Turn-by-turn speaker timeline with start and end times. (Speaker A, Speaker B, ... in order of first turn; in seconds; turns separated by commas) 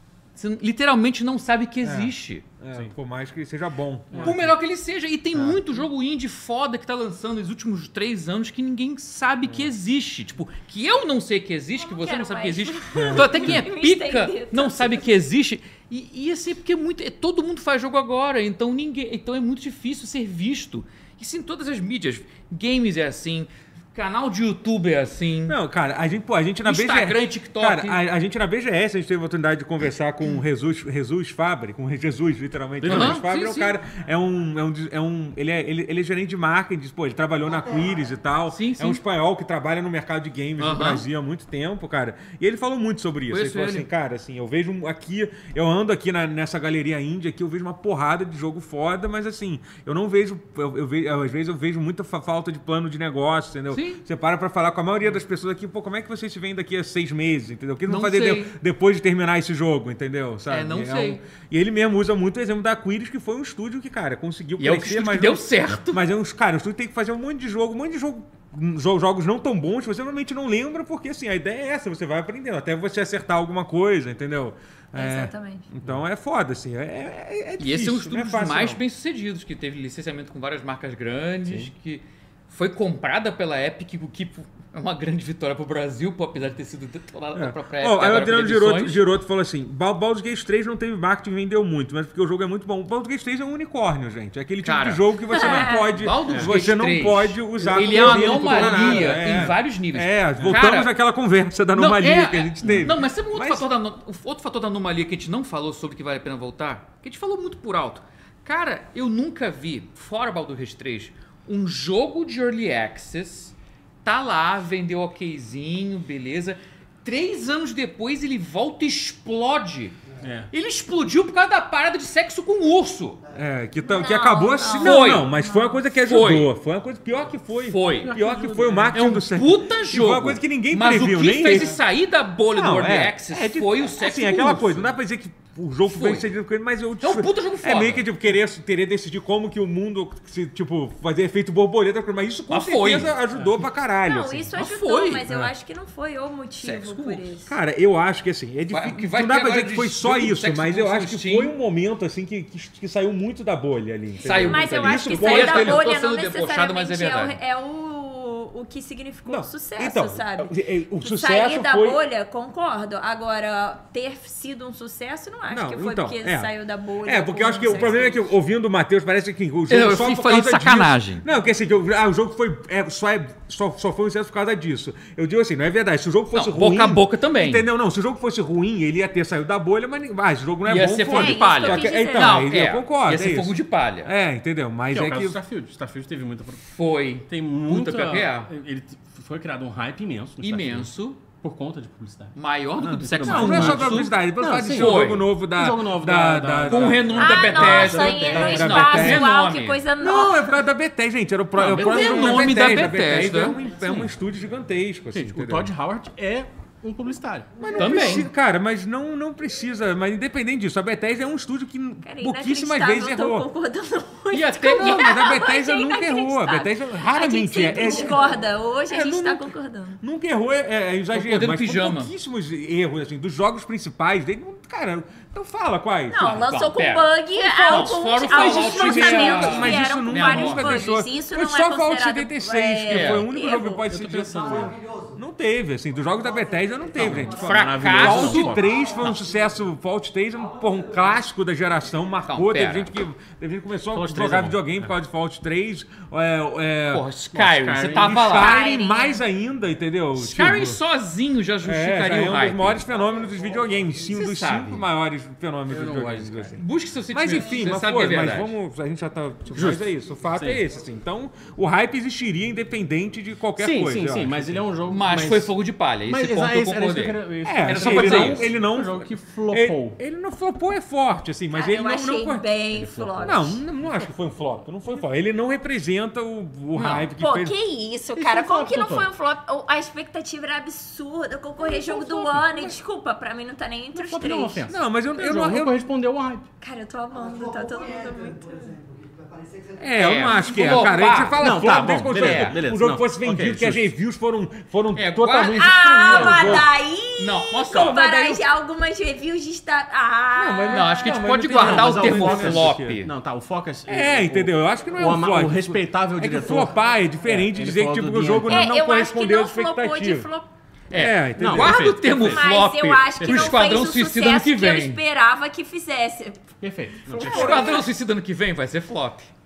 Speaker A: 0.3-2.4, Speaker B: 1.8-4.5, Speaker C: 4.1-4.4, Speaker A: 4.2-25.6, Speaker B: 5.3-5.6, Speaker B: 9.4-9.7, Speaker D: 11.8-15.1, Speaker B: 12.9-13.6, Speaker B: 25.5-78.8, Speaker A: 26.6-28.0, Speaker C: 32.8-33.2, Speaker A: 32.8-33.8, Speaker E: 37.4-38.1, Speaker A: 38.5-39.0, Speaker A: 40.6-41.0, Speaker A: 43.3-43.9, Speaker A: 53.7-54.0, Speaker A: 57.9-58.5, Speaker A: 60.5-61.2, Speaker A: 64.6-66.0, Speaker D: 74.9-75.7, Speaker A: 77.6-89.0, Speaker B: 87.3-103.7, Speaker A: 94.6-100.9, Speaker D: 95.3-95.9, Speaker C: 97.6-99.5, Speaker A: 101.7-120.0, Speaker C: 120.2-120.5, Speaker A: 120.5-123.2, Speaker E: 123.2-124.1, Speaker B: 123.3-131.8, Speaker D: 123.8-125.8, Speaker A: 124.7-125.3, Speaker A: 126.0-126.5, Speaker A: 127.7-128.1, Speaker C: 128.0-129.0, Speaker A: 128.9-134.9, Speaker B: 132.5-144.5, Speaker A: 135.9-136.3, Speaker A: 137.0-138.1, Speaker A: 142.5-143.1, Speaker C: 143.3-143.6, Speaker D: 144.0-147.5, Speaker A: 144.6-145.2, Speaker B: 145.3-145.5, Speaker A: 146.6-147.3, Speaker B: 147.5-155.9, Speaker A: 148.7-151.5, Speaker A: 154.2-157.4, Speaker D: 154.3-168.3, Speaker B: 159.3-162.0, Speaker B: 165.5-185.4, Speaker A: 169.7-171.2, Speaker A: 176.3-177.7, Speaker A: 180.7-184.1, Speaker D: 181.1-182.5, Speaker C: 184.9-186.6, Speaker A: 186.7-188.5, Speaker C: 187.3-198.9, Speaker A: 190.4-191.2, Speaker A: 192.3-195.3, Speaker B: 192.8-199.3, Speaker A: 196.7-199.8, Speaker D: 197.2-200.6, Speaker B: 200.0-205.7, Speaker C: 201.6-204.1, Speaker A: 201.6-203.6, Speaker C: 205.1-207.5, Speaker B: 207.6-213.5, Speaker E: 207.6-208.1, Speaker A: 207.7-208.3, Speaker D: 212.0-220.0, Speaker A: 214.3-215.2, Speaker B: 214.7-218.3, Speaker E: 217.7-218.4, Speaker B: 218.9-226.7, Speaker A: 221.1-222.1, Speaker D: 226.1-233.9, Speaker A: 226.2-230.8, Speaker B: 227.7-247.1, Speaker A: 232.9-233.2, Speaker C: 233.9-234.8, Speaker E: 234.2-235.2, Speaker E: 236.1-237.8, Speaker C: 237.0-238.7, Speaker A: 237.0-239.2, Speaker E: 238.6-239.5, Speaker A: 242.3-242.9, Speaker C: 243.9-244.9, Speaker A: 246.9-248.6, Speaker C: 247.3-248.2, Speaker B: 248.0-250.8, Speaker D: 248.2-249.2, Speaker A: 250.2-252.8, Speaker B: 251.6-264.7, Speaker E: 253.0-253.8, Speaker A: 254.1-254.8, Speaker C: 255.7-256.6, Speaker A: 256.6-258.5, Speaker C: 259.5-260.6, Speaker C: 263.6-265.5, Speaker A: 264.9-268.5, Speaker C: 266.1-270.0, Speaker B: 267.4-272.5, Speaker D: 271.5-273.6, Speaker C: 272.7-274.1, Speaker B: 273.2-277.5, Speaker A: 276.7-277.1, Speaker C: 276.8-277.1, Speaker D: 277.2-284.6, Speaker C: 278.1-279.1, Speaker B: 281.6-282.7, Speaker C: 283.9-286.4, Speaker B: 284.7-285.8, Speaker D: 286.6-288.7, Speaker E: 287.1-291.0, Speaker B: 289.8-296.7, Speaker A: 289.9-292.6, Speaker C: 291.4-293.9, Speaker A: 294.9-296.6, Speaker D: 295.5-301.2, Speaker C: 296.0-296.6, Speaker A: 297.2-298.4, Speaker B: 300.4-303.0, Speaker A: 300.7-303.1, Speaker C: 301.5-308.6, Speaker B: 303.9-310.3, Speaker D: 308.5-310.5, Speaker A: 310.9-315.0, Speaker B: 310.9-311.9, Speaker C: 311.4-312.4, Speaker D: 312.1-316.5, Speaker C: 313.2-313.6, Speaker C: 316.6-317.8, Speaker B: 317.1-317.8, Speaker D: 317.2-317.9, Speaker A: 317.2-319.3